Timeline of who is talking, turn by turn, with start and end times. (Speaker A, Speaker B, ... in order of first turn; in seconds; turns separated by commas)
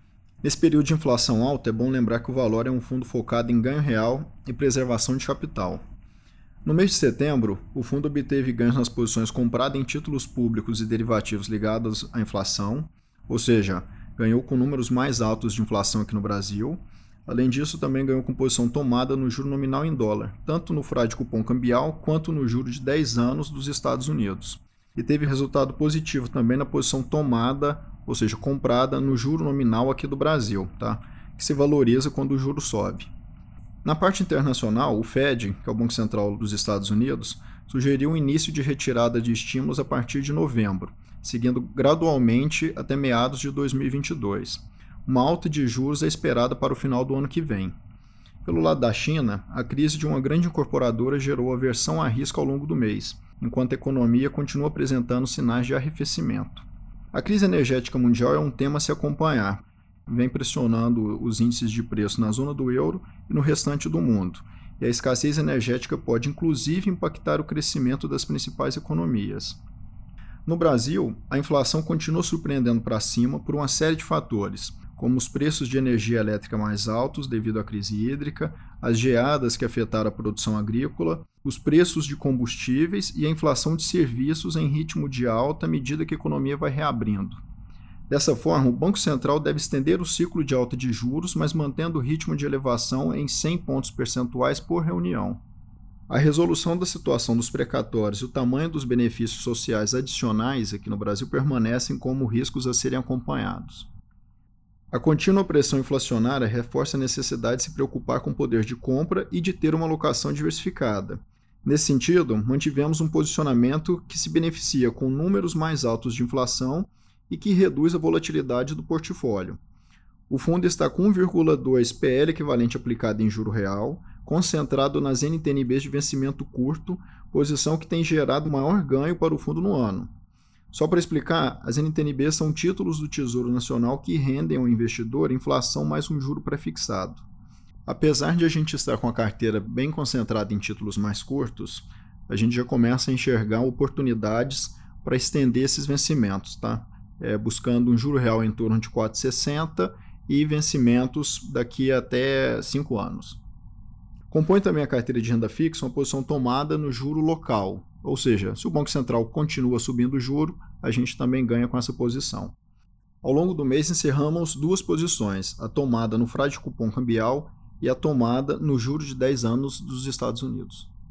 Speaker A: 0.4-5.8, Speaker A: 6.6-33.1, Speaker A: 33.8-47.7, Speaker A: 48.4-69.6, Speaker A: 70.5-87.4, Speaker A: 88.1-95.4, Speaker A: 96.1-103.9, Speaker A: 104.9-119.6, Speaker A: 120.3-130.1, Speaker A: 130.7-137.2, Speaker A: 137.8-153.4, Speaker A: 154.3-162.6, Speaker A: 163.2-170.9